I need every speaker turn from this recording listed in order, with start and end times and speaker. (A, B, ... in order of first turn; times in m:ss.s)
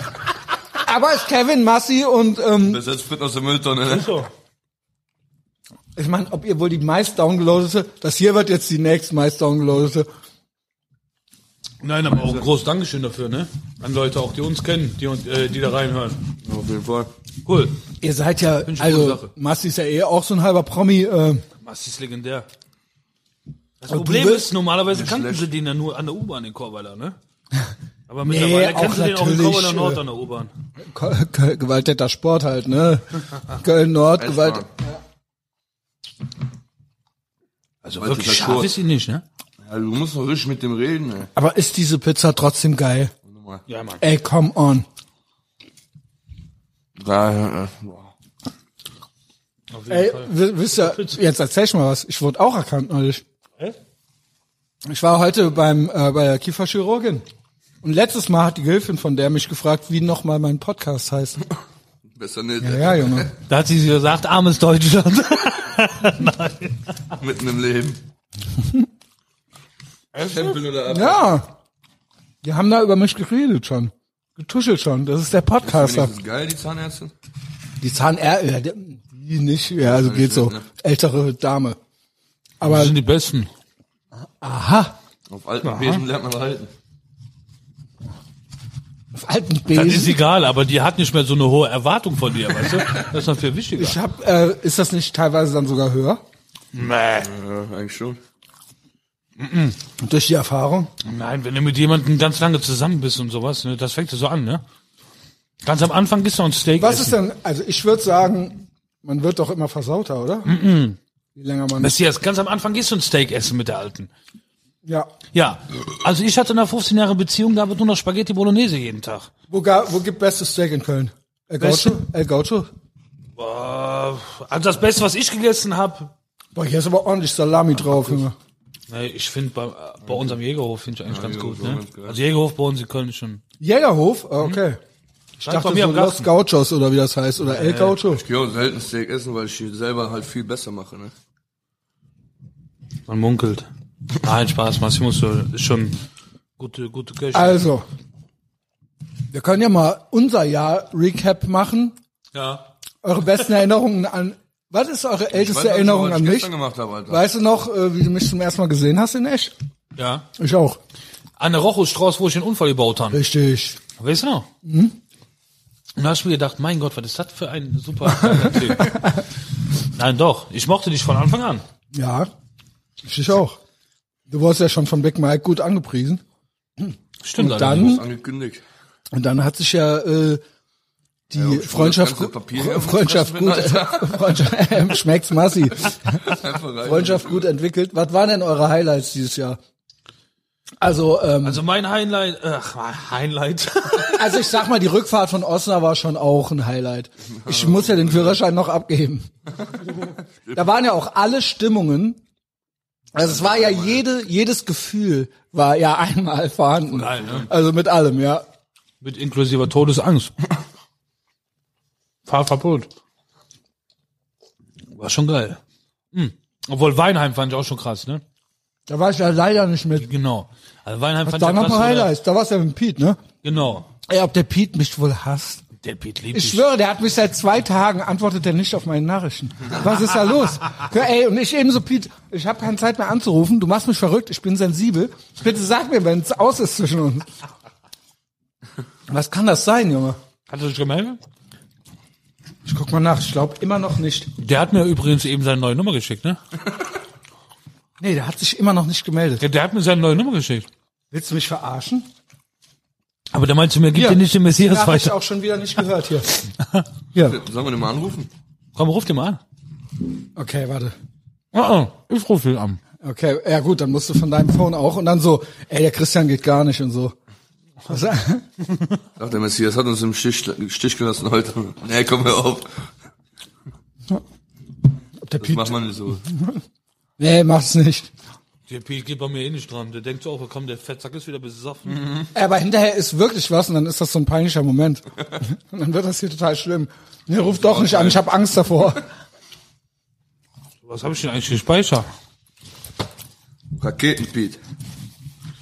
0:00.7-0:02.8 A
0:02.6-0:04.2 B
0:03.9-0:04.3 C
0:06.0-0:10.1 A
0:11.8-0:16.2 C
0:16.4-0:17.1 B
0:17.4-0:17.8 C
0:18.0-0:21.4 A
0:18.6-0:19.3 C
0:21.6-0:22.4 C
0:23.8-0:27.2 C
0:23.9-0:24.5 A
0:24.9-0:25.5 B
0:28.1-0:30.5 C
0:28.2-0:30.0 A
0:30.8-0:35.0 A
0:34.2-0:34.6 B
0:37.8-0:39.2 C
0:38.0-0:38.7 B
0:39.6-0:41.3 B
0:41.3-0:43.1 A
0:43.3-0:43.6 B
0:43.7-0:44.0 C
0:44.0-0:44.8 A
0:47.0-0:48.1 B
0:49.7-0:51.2 C
0:49.9-0:53.2 A
0:54.9-0:57.2 A
0:57.8-1:01.4 A
1:02.2-1:03.3 B
1:02.6-1:03.3 A
1:03.5-1:07.0 C
1:07.1-1:08.0 B
1:08.6-1:08.8 A
1:10.1-1:10.6 C
1:10.2-1:11.4 B
1:10.9-1:11.5 A
1:12.4-1:16.1 A
1:15.6-1:17.1 B
1:17.8-1:21.8 A
1:19.8-1:20.6 B
1:22.6-1:23.0 A
1:22.6-1:23.5 C
1:24.4-1:25.0 A
1:25.3-1:26.7 B
1:25.6-1:26.0 C
1:29.1-1:30.2 A
1:29.7-1:34.0 C
1:33.8-1:36.2 A
1:36.7-1:37.3 C
1:37.2-1:38.2 B
1:39.4-1:39.8 C
1:40.0-1:40.9 A
1:41.0-1:44.6 C
1:45.6-1:47.2 C
1:46.8-1:50.5 A
1:50.4-1:51.0 C
1:51.3-1:51.9 A
1:51.8-1:54.1 C
1:54.8-1:55.1 A
1:55.3-1:59.3 C
1:59.5-2:02.7 A
2:01.6-2:02.0 C
2:03.4-2:06.1 C
2:06.5-2:08.3 A
2:08.9-2:13.4 C
2:11.1-2:12.2 B
2:13.6-2:14.8 A
2:15.4-2:16.3 C
2:15.4-2:18.2 A
2:17.4-2:18.0 C
2:18.1-2:21.1 B
2:23.1-2:26.0 C
2:26.6-2:27.6 C
2:27.3-2:27.8 A
2:29.3-2:32.0 A
2:32.3-2:32.7 C
2:33.0-2:36.5 A
2:35.3-2:37.2 B
2:37.1-2:39.5 A
2:40.0-2:40.2 C
2:40.4-2:40.8 A
2:41.4-2:43.2 C
2:43.1-2:43.8 A
2:44.0-2:44.5 C
2:44.6-2:45.0 A
2:46.0-2:49.0 C
2:48.2-2:49.2 A
2:49.9-2:51.6 C
2:51.9-2:52.3 A
2:53.0-2:53.6 A
2:54.3-2:56.2 A
2:56.8-2:58.0 A
2:57.2-2:58.0 C
2:57.6-2:58.6 B
2:59.1-3:00.4 A
3:01.3-3:09.6 A
3:01.3-3:04.5 B
3:06.2-3:07.5 B
3:10.8-3:11.6 A
3:11.4-3:14.3 C
3:14.1-3:19.3 A
3:17.4-3:18.4 B
3:20.5-3:22.2 A
3:23.1-3:28.4 A
3:23.2-3:24.0 B
3:26.9-3:27.5 C
3:29.0-3:30.3 C
3:32.2-3:32.9 C
3:34.9-3:35.6 C
3:36.1-3:38.2 C
3:38.9-3:40.1 A
3:40.0-3:42.1 C
3:41.2-3:43.2 A
3:43.4-3:43.9 C
3:44.0-3:45.6 A
3:45.8-3:46.6 C
3:46.3-3:57.3 A
3:59.1-4:00.2 A
4:00.5-4:01.2 C
4:02.6-4:04.3 A
4:04.4-4:06.4 C
4:08.0-4:09.4 A
4:09.4-4:10.7 C
4:11.1-4:12.1 A
4:13.3-4:15.2 C
4:13.9-4:16.3 A
4:16.6-4:16.8 C
4:17.1-4:17.4 A
4:17.2-4:18.3 B
4:18.7-4:19.4 C
4:20.4-4:20.9 A
4:21.5-4:22.8 C
4:23.0-4:27.1 A
4:27.8-4:28.4 A
4:29.2-4:32.8 B
4:35.2-4:36.6 A
4:35.4-4:36.2 B
4:37.2-4:38.1 A
4:38.7-4:42.1 C
4:42.0-4:42.2 B
4:42.3-4:49.0 A
4:47.7-4:48.2 B
4:50.8-4:52.1 C
4:53.8-4:54.6 B